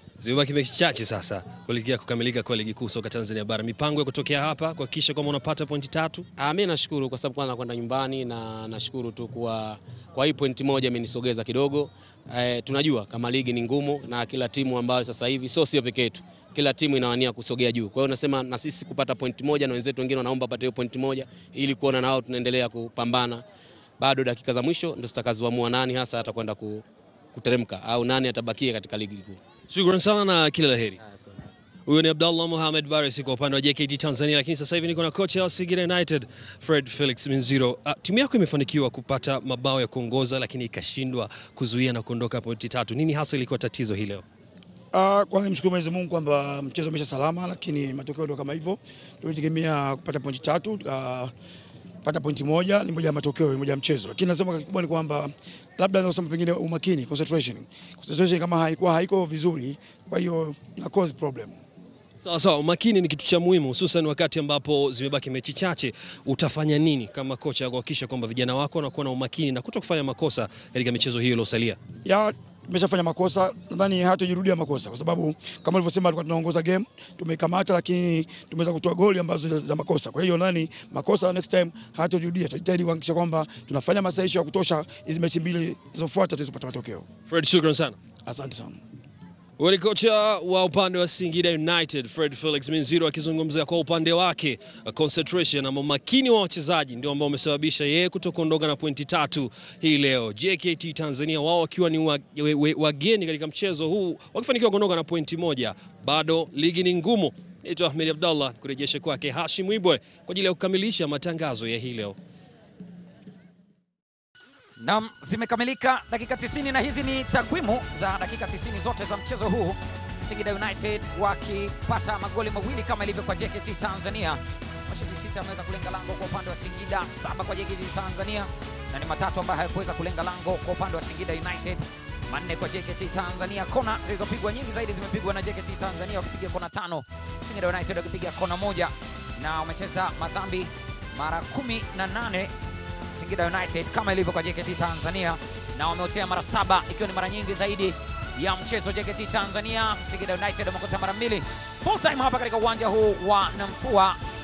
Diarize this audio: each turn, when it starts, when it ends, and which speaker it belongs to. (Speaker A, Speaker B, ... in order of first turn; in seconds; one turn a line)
Speaker A: 0.2-6.3
Speaker B: 6.4-23.4
Speaker B: 24.0-29.4
Speaker A: 29.7-31.0
Speaker B: 31.0-31.4
Speaker A: 31.9-44.2
Speaker C: 44.9-51.3
Speaker C: 52.0-61.5
Speaker A: 62.2-71.8
Speaker C: 72.0-87.1
Speaker A: 87.3-88.0
Speaker C: 88.2-88.8
Speaker A: 89.6-112.2
Speaker D: 114.8-142.5
Speaker D: 143.1-154.2